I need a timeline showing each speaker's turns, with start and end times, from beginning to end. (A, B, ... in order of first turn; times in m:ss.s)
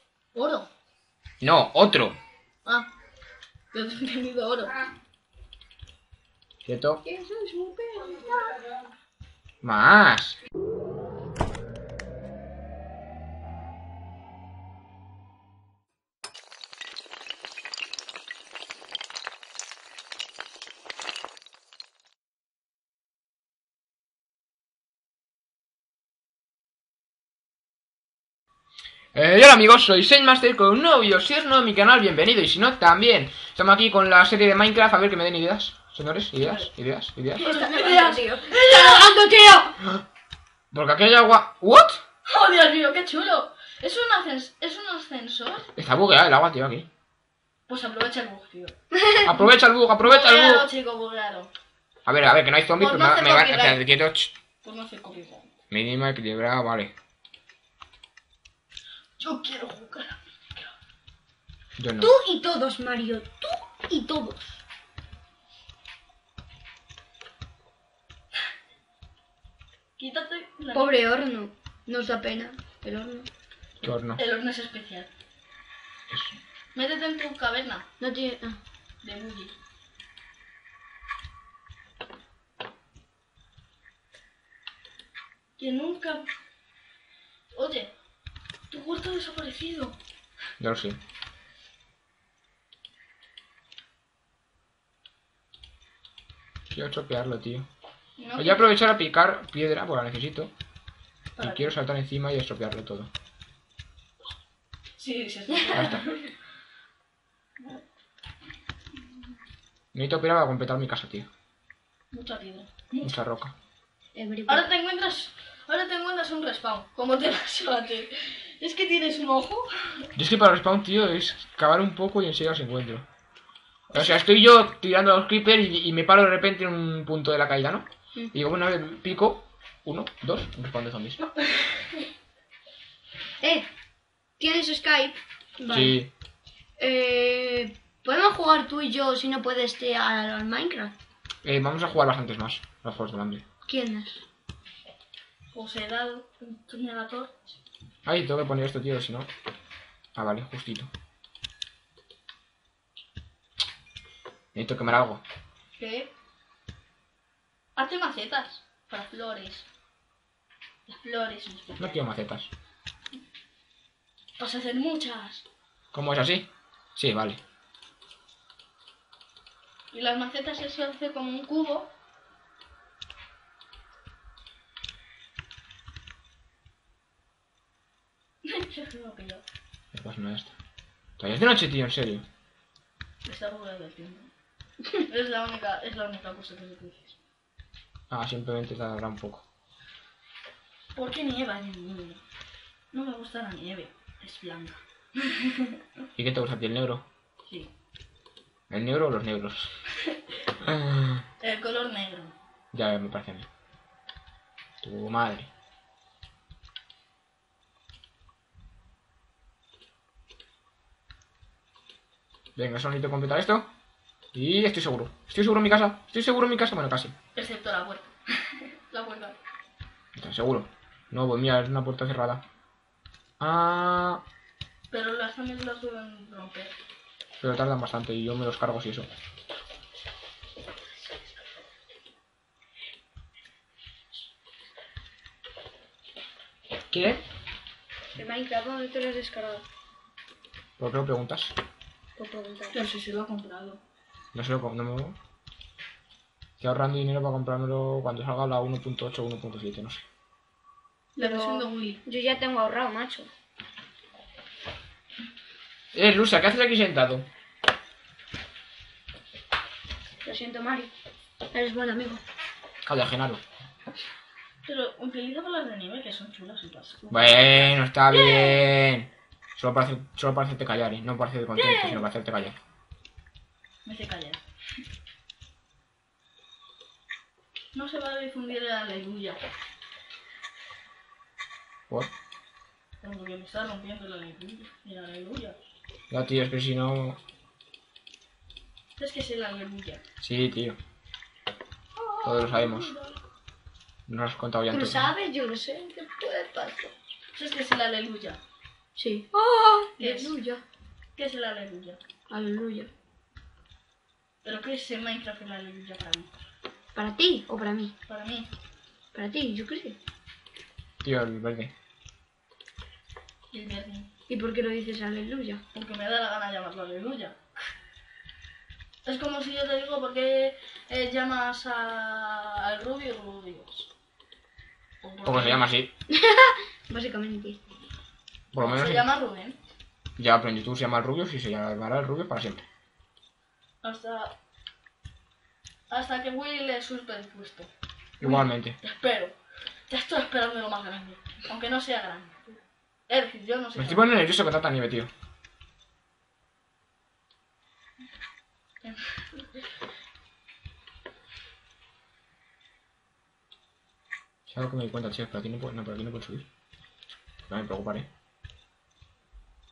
0:00.3-0:00.7 A
0:01.4-0:02.2 B
0:03.7-0:04.8 A
0:06.6-0:07.0 B
0:07.0-0:08.7 A
0:09.6-0:10.4 B
0:29.1-0:37.5 B
0:37.4-0:39.2 A
0:37.4-0:39.8 C
0:40.7-0:42.0 B
0:42.2-0:45.7 A
0:45.8-0:46.9 B
0:47.7-0:48.7 A
0:48.9-0:49.4 C
0:49.2-0:50.7 B
0:50.0-0:51.5 A
0:52.0-0:54.3 B
0:52.8-0:53.8 A
0:54.6-0:55.5 A
0:55.7-0:56.9 B
0:59.2-1:00.7 A
1:01.8-1:02.1 B
1:02.0-1:04.6 C
1:10.0-1:11.1 A
1:10.7-1:13.3 C
1:13.8-1:14.2 B
1:14.2-1:15.1 A
1:16.1-1:16.4 B
1:16.7-1:17.8 A
1:18.0-1:18.6 C
1:19.0-1:19.5 A
1:25.6-1:26.3 A
1:27.5-1:27.9 A
1:28.7-1:30.0 A
1:30.6-1:31.0 B
1:36.7-1:37.7 B
1:38.2-1:38.7 A
1:38.4-1:40.5 B
1:41.4-1:41.7 A
1:41.4-1:43.1 B
1:45.0-1:46.2 A
1:45.7-1:46.1 B
1:49.9-1:51.3 B
1:52.1-1:53.2 A
1:53.0-1:53.5 B
1:54.1-1:54.7 C
1:54.5-2:00.0 A
2:00.1-2:03.0 B
2:03.9-2:11.2 B
2:13.4-2:13.7 C
2:14.4-2:16.0 C
2:15.7-2:16.1 B
2:16.8-2:20.9 C
2:21.4-2:23.4 B
2:23.6-2:24.2 C
2:25.5-2:27.6 A
2:28.0-2:29.3 B
2:30.1-2:30.9 B
2:34.5-2:35.2 B
2:35.8-2:36.1 A
2:37.8-2:39.6 A
2:40.9-2:42.0 A
2:41.8-2:42.5 B
2:44.4-2:45.4 A
2:45.9-2:47.4 B
2:49.9-2:51.9 A
2:58.4-2:59.4 A
2:59.9-3:00.5 B
3:01.2-3:02.2 B
3:03.2-3:04.3 A
3:04.9-3:07.2 A
3:08.1-3:09.4 B
3:10.9-3:12.2 A
3:12.9-3:15.8 A
3:16.2-3:17.0 B
3:18.7-3:19.7 B
3:20.6-3:21.2 B
3:21.4-3:22.3 A
3:22.7-3:23.5 B
3:24.8-3:25.5 B
3:32.6-3:33.7 B
3:34.3-3:37.1 B
3:37.3-3:39.4 A
3:40.1-3:42.4 B
3:43.4-3:44.2 B
3:44.9-3:46.7 A
3:47.4-3:49.1 B
3:56.9-3:57.2 B
3:58.1-3:59.6 C
4:00.8-4:01.5 B
4:02.2-4:02.8 C
4:02.7-4:03.8 A
4:04.3-4:05.2 B
4:06.6-4:10.0 B
4:11.2-4:12.0 A
4:11.2-4:13.3 C
4:15.9-4:17.3 B
4:20.2-4:20.9 C
4:21.5-4:22.2 C
4:22.8-4:23.4 B
4:24.6-4:28.6 A
4:27.1-4:32.6 B
4:31.6-4:32.0 A
4:33.8-4:34.4 A
4:37.7-4:39.4 A
4:43.0-4:45.6 A
4:46.1-4:47.2 B
4:49.0-4:50.0 A
4:50.2-4:50.8 B
4:52.0-4:52.8 C
4:52.2-4:52.9 B
4:54.1-4:55.1 B
4:54.7-4:56.9 C
4:57.3-4:58.4 A
4:59.0-5:00.6 C
5:00.0-5:00.4 A
5:01.2-5:02.0 A
5:02.3-5:02.9 C
5:04.4-5:06.3 A
5:06.9-5:07.9 C
5:08.1-5:08.5 A
5:09.1-5:10.0 C
5:11.0-5:11.7 B
5:13.5-5:14.1 A
5:14.3-5:15.6 C
5:15.7-5:17.4 A
5:19.0-5:23.9 A
5:25.0-5:25.7 A
5:25.2-5:25.9 B
5:26.1-5:27.6 C
5:28.5-5:29.0 B
5:28.6-5:29.6 A
5:30.2-5:32.6 B
5:33.8-5:34.3 A
5:35.9-5:37.7 A
5:38.2-5:38.8 B
5:38.2-5:39.3 A
5:39.9-5:44.1 A
5:43.8-5:45.1 B
5:54.5-5:56.4 B
5:57.5-5:58.1 B